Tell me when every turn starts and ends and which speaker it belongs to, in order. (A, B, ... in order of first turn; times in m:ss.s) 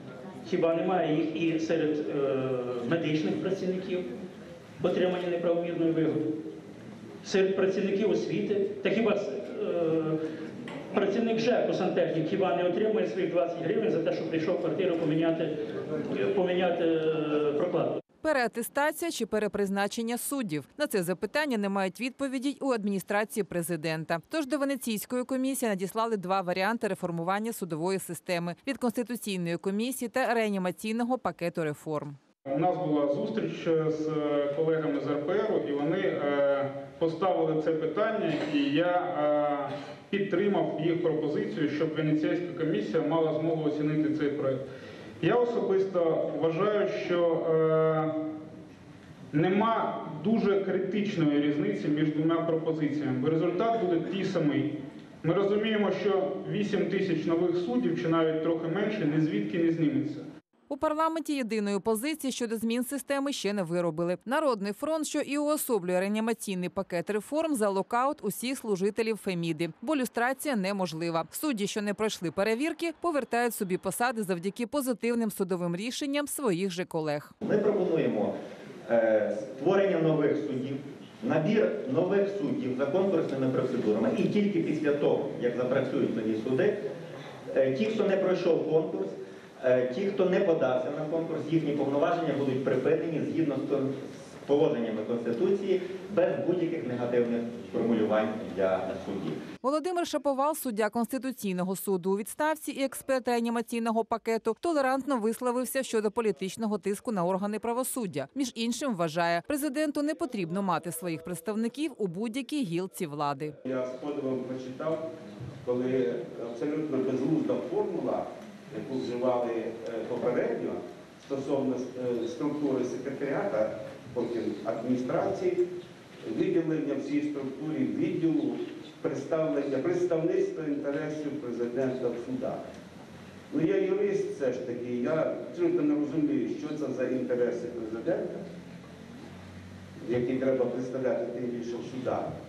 0:00.4-0:04.1 A
0:04.8-0:06.3 A
0:07.2-0:10.2 A
0:10.9-0:18.0 A
0:18.2-0:32.2 B
0:32.4-0:44.6 C
0:45.2-0:48.1 C
0:49.3-1:00.2 C
1:00.7-1:17.3 B
1:17.4-1:18.3 D
1:18.8-1:26.7 D
1:27.5-1:39.4 D
1:39.6-1:53.5 B
1:53.6-1:55.0 E
1:55.6-2:05.6 E
2:06.2-2:12.6 E
2:13.5-2:18.4 E
2:20.0-2:22.3 E